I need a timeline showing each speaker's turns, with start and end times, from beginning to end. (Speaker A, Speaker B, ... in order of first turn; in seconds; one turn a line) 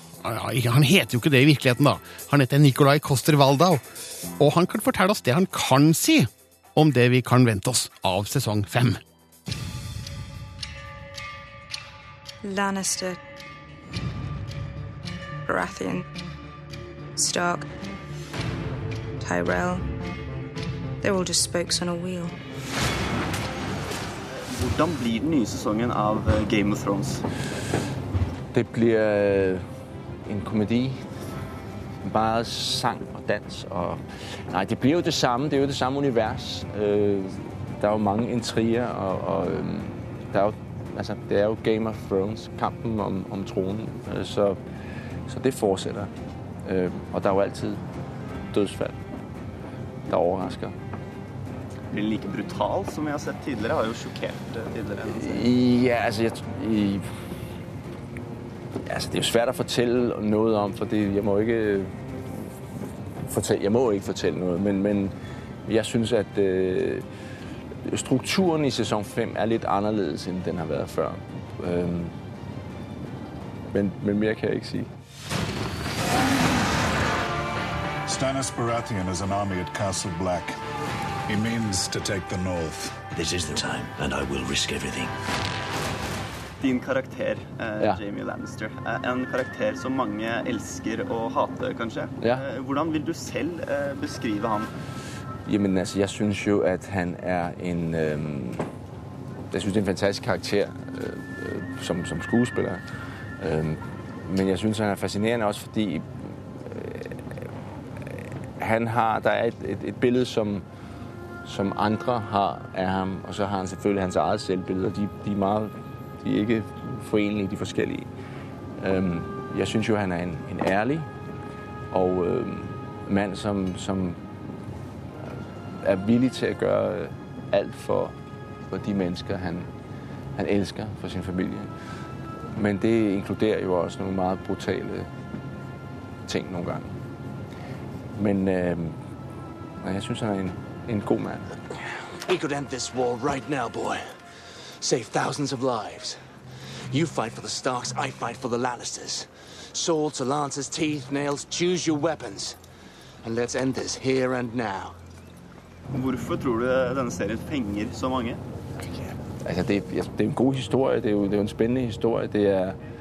Speaker A: 0.2-3.8
Speaker A: 4.4-9.0
Speaker B: 12.4-13.2
Speaker B: 15.5-16.0
Speaker B: 17.2-17.7
Speaker B: 19.2-19.8
Speaker B: 21.0-22.4
Speaker C: 24.4-27.2
Speaker D: 28.5-29.7
Speaker D: 30.3-31.1
Speaker D: 32.0-44.6
Speaker D: 45.3-46.1
Speaker D: 46.6-47.8
Speaker D: 48.5-49.0
Speaker D: 50.1-50.8
Speaker C: 51.9-55.5
Speaker D: 55.0-57.1
Speaker D: 58.9-62.5
Speaker D: 63.2-65.1
Speaker D: 65.7-67.1
Speaker D: 67.9-72.2
Speaker D: 73.7-74.9
Speaker E: 78.1-80.5
Speaker E: 81.3-83.0
Speaker C: 86.6-94.7
Speaker D: 95.5-98.7
Speaker D: 99.5-102.8
Speaker D: 103.4-107.4
Speaker D: 108.6-110.7
Speaker D: 111.5-118.1
Speaker D: 118.8-121.1
Speaker D: 121.9-124.4
Speaker D: 125.2-128.2
Speaker D: 128.7-129.7
Speaker D: 130.4-131.9
Speaker D: 132.5-135.1
Speaker D: 136.3-136.9
Speaker D: 138.2-139.0
Speaker D: 139.8-141.4
Speaker F: 142.3-144.0
Speaker F: 144.8-146.2
Speaker F: 146.9-152.6
Speaker F: 153.2-155.0
Speaker C: 155.9-158.4
Speaker D: 159.4-162.8